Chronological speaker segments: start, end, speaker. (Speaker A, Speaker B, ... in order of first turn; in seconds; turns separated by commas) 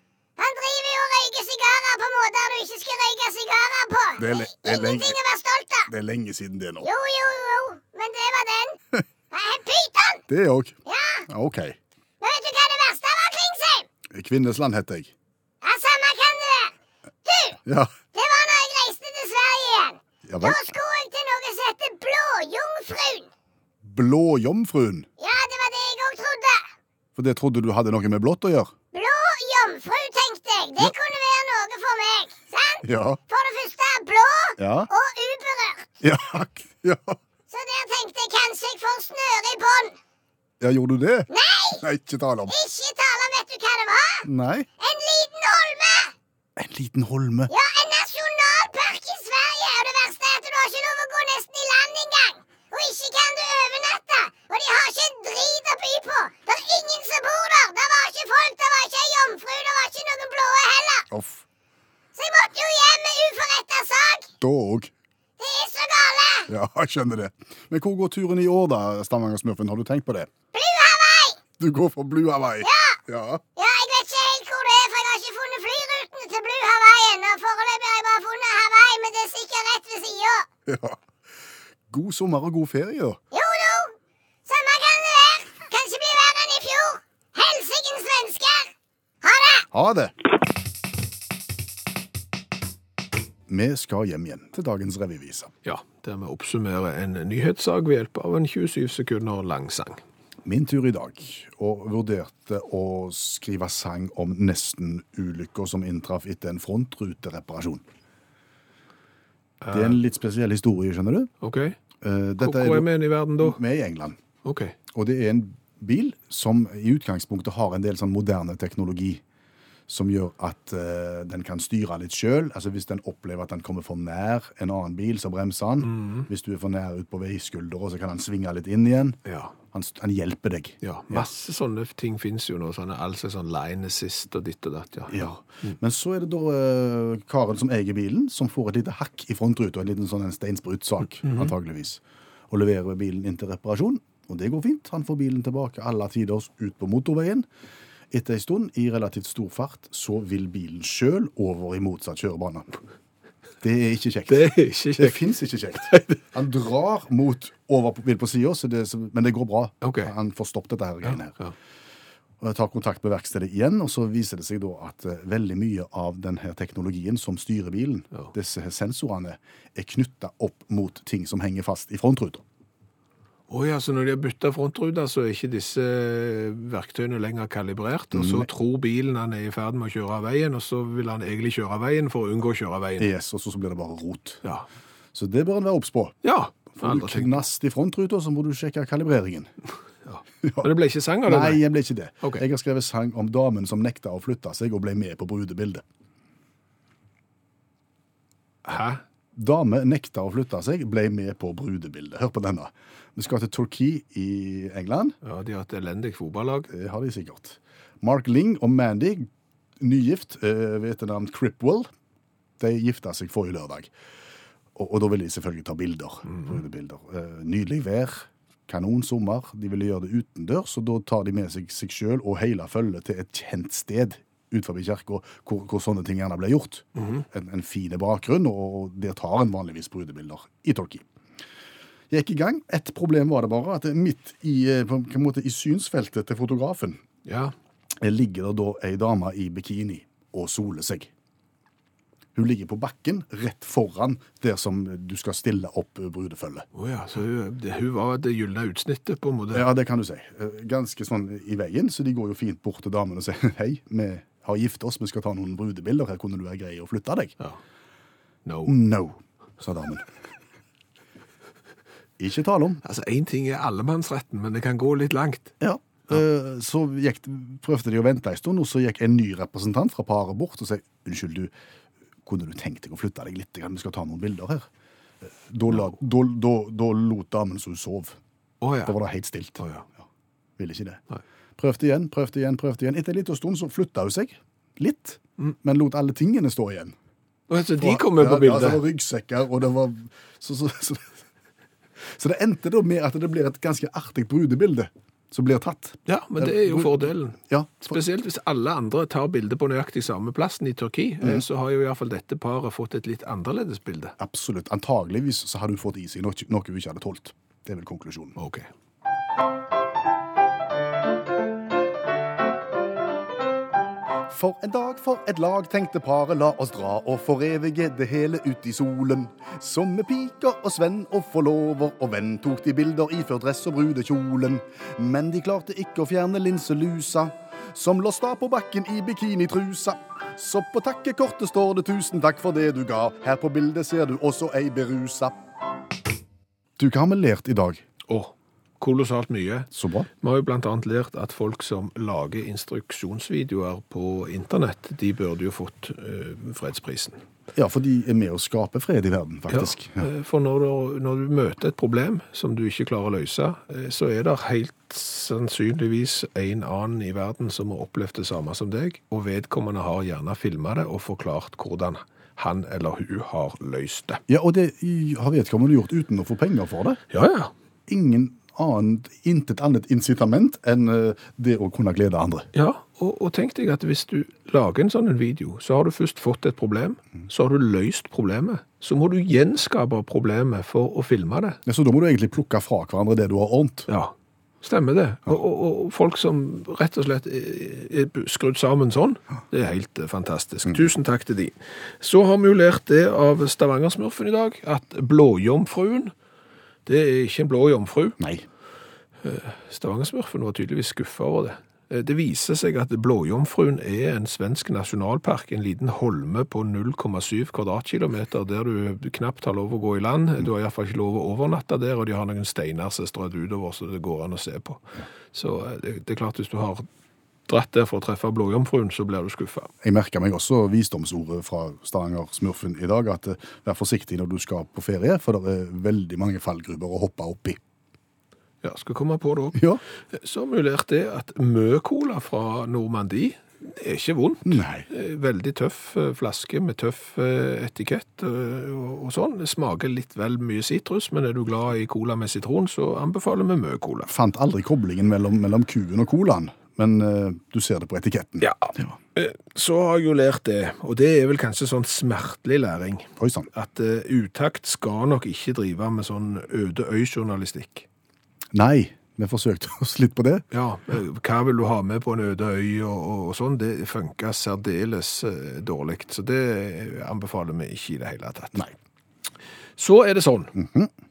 Speaker A: 0.4-5.9, Speaker B: 4.2-5.2, Speaker B: 5.9-6.9, Speaker A: 6.8-8.8, Speaker A: 9.3-10.2, Speaker B: 10.3-10.8, Speaker A: 10.8-11.2, Speaker B: 11.3-11.8, Speaker A: 12.2-13.9, Speaker B: 14.1-15.1, Speaker A: 15.6-16.7, Speaker A: 17.2-17.6, Speaker B: 17.6-17.9, Speaker A: 18.1-23.3, Speaker B: 20.2-20.6, Speaker B: 23.8-25.1, Speaker A: 25.2-26.7, Speaker B: 27.1-28.7, Speaker A: 28.9-35.9, Speaker B: 32.8-33.2, Speaker B: 34.6-34.9, Speaker B: 36.0-37.2, Speaker A: 37.5-40.0, Speaker B: 40.6-41.3, Speaker A: 41.3-41.8, Speaker B: 41.8-42.5, Speaker A: 42.5-44.3, Speaker B: 44.2-44.7, Speaker A: 44.8-46.1, Speaker B: 46.5-47.5, Speaker A: 47.5-61.1, Speaker B: 61.1-61.4, Speaker A: 62.1-64.3, Speaker B: 64.4-64.9, Speaker A: 65.4-66.5, Speaker B: 66.5-70.3, Speaker A: 70.5-71.4, Speaker B: 71.6-73.4, Speaker A: 72.6-73.0, Speaker A: 73.6-80.5, Speaker B: 80.7-81.0, Speaker B: 81.9-83.2, Speaker A: 83.3-83.9, Speaker A: 84.5-88.7, Speaker A: 89.2-89.7, Speaker B: 89.7-90.1, Speaker B: 93.5-95.5, Speaker C: 95.6-100.0, Speaker B: 100.4-107.8, Speaker C: 109.6-110.0, Speaker B: 109.7-111.3, Speaker C: 111.4-111.8, Speaker B: 112.0-114.2, Speaker C: 112.4-113.6, Speaker C: 114.4-114.8, Speaker B: 114.9-119.2, Speaker B: 119.9-129.2, Speaker C: 125.8-126.3, Speaker C: 129.2-129.5, Speaker B: 129.7-131.3, Speaker C: 130.8-135.7, Speaker B: 135.1-147.5, Speaker C: 141.2-141.5, Speaker B: 148.1-152.7, Speaker B: 153.6-161.3, Speaker C: 154.3-155.3, Speaker C: 155.8-156.2, Speaker C: 159.8-160.1, Speaker C: 161.1-161.5, Speaker B: 162.4-172.4, Speaker C: 173.5-183.1, Speaker B: 178.1-178.5, Speaker B: 183.0-184.4, Speaker B: 185.1-186.2, Speaker C: 186.2-187.4, Speaker B: 186.7-189.5, Speaker C: 190.1-191.6, Speaker B: 190.4-190.7, Speaker B: 191.2-195.8, Speaker C: 198.6-199.0, Speaker B: 199.3-205.2, Speaker C: 205.2-206.7, Speaker B: 206.7-209.3, Speaker B: 209.8-211.9, Speaker B: 212.6-213.9, Speaker B: 214.7-231.0, Speaker C: 226.9-227.2, Speaker B: 232.1-237.0, Speaker C: 237.2-237.5, Speaker B: 238.0-241.1, Speaker B: 242.3-246.7, Speaker C: 246.7-249.6, Speaker B: 249.5-257.3, Speaker C: 258.4-258.7, Speaker B: 258.6-260.1, Speaker B: 262.2-262.8, Speaker C: 262.8-265.5, Speaker B: 265.6-271.5, Speaker B: 272.2-274.7, Speaker B: 275.3-278.2, Speaker C: 278.6-278.9, Speaker B: 278.9-280.0, Speaker C: 279.6-279.8, Speaker B: 280.6-281.0, Speaker B: 281.6-286.9, Speaker C: 287.5-288.8, Speaker B: 287.8-291.2, Speaker B: 292.1-298.0, Speaker C: 296.1-304.1, Speaker B: 304.2-308.4, Speaker C: 308.4-308.7, Speaker B: 314.3-335.4, Speaker B: 336.8-337.8, Speaker C: 338.1-347.2, Speaker B: 339.7-340.1, Speaker B: 347.5-350.1, Speaker C: 349.5-364.2, Speaker B: 364.3-367.0, Speaker C: 367.1-367.5, Speaker B: 367.9-372.5, Speaker C: 372.5-381.6, Speaker B: 381.6-383.9, Speaker C: 383.9-396.1, Speaker C: 396.9-398.2, Speaker B: 398.2-398.4, Speaker C: 399.2-416.9, Speaker C: 417.5-419.7, Speaker B: 419.8-427.6, Speaker C: 428.6-429.6, Speaker B: 429.5-429.8, Speaker C: 430.1-444.1, Speaker B: 434.4-434.9, Speaker B: 444.1-448.9, Speaker C: 448.4-457.9, Speaker B: 453.2-453.5, Speaker B: 458.5-460.4, Speaker C: 460.5-468.7, Speaker C: 469.8-470.5, Speaker B: 470.5-470.9